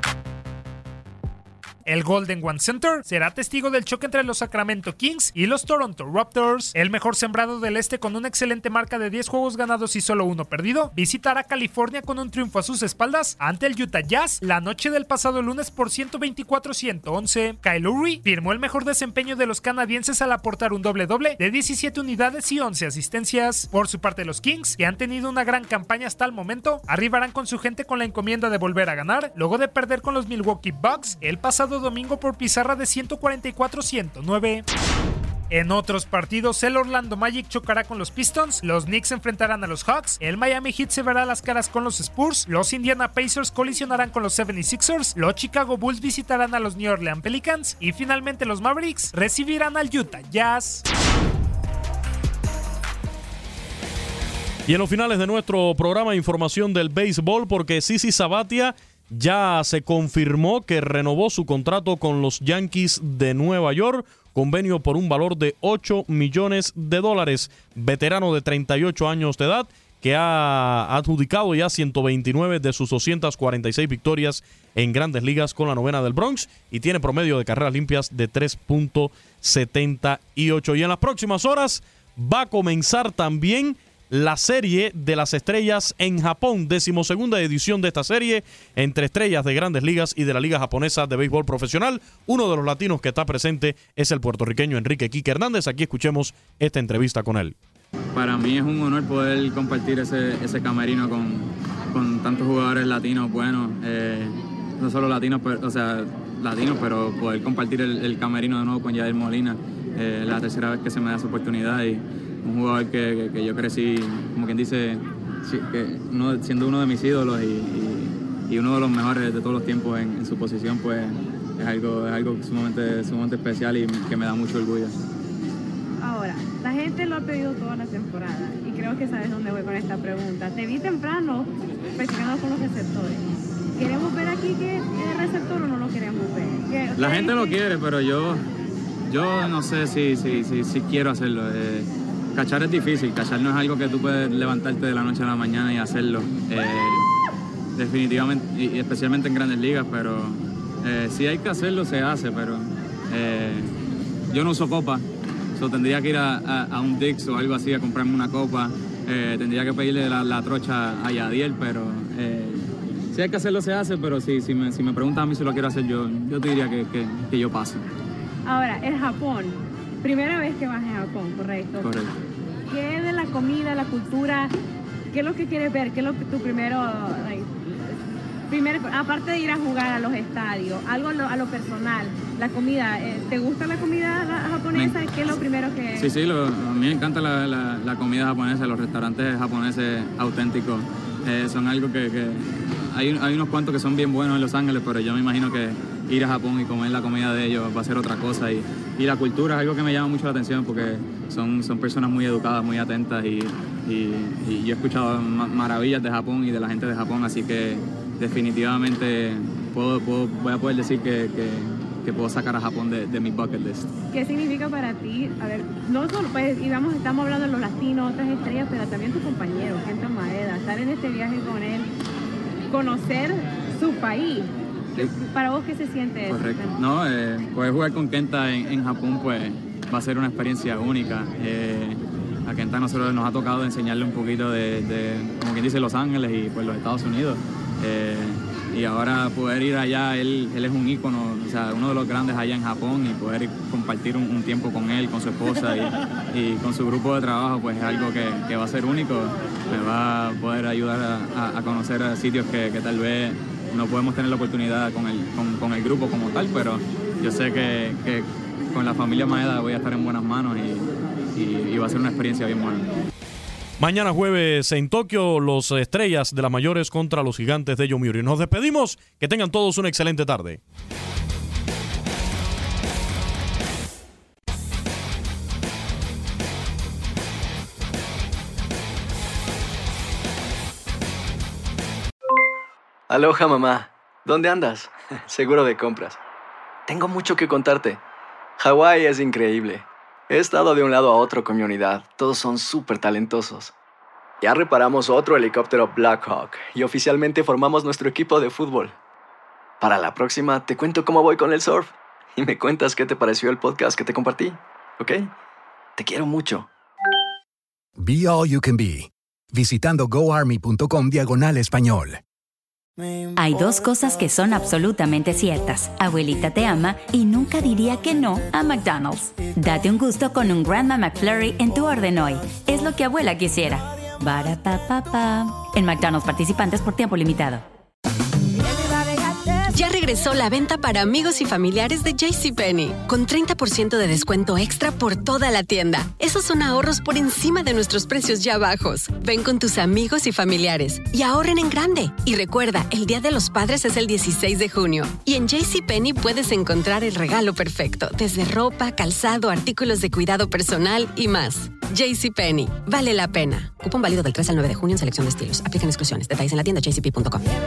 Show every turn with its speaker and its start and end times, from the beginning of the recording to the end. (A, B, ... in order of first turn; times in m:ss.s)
0:01.9-0:34.6 A
0:35.5-0:50.8 A
0:54.7-1:37.6 B
1:38.1-2:05.0 C
2:06.0-2:13.2 D
2:13.8-2:17.6 D
2:17.0-2:18.4 C
2:19.1-2:27.1 C
2:27.8-2:33.7 C
2:34.3-2:35.0 C
2:35.6-2:47.9 C
2:48.4-2:52.0 D
2:51.8-2:52.1 C
2:52.7-2:54.5 D
2:55.1-2:58.0 D
2:58.5-3:06.1 D
3:06.0-3:33.9 C
3:34.1-3:41.9 D
3:42.7-3:46.8 D
3:46.3-4:23.0 C
4:23.8-4:30.6 B
4:43.1-4:46.2 E
4:46.9-4:48.0 E
4:48.6-4:53.7 E
4:54.4-4:59.0 E
4:59.8-5:05.3 E
5:06.0-5:06.7 E
5:08.0-5:12.2 F
5:13.4-5:27.6 G
5:29.7-5:57.4 H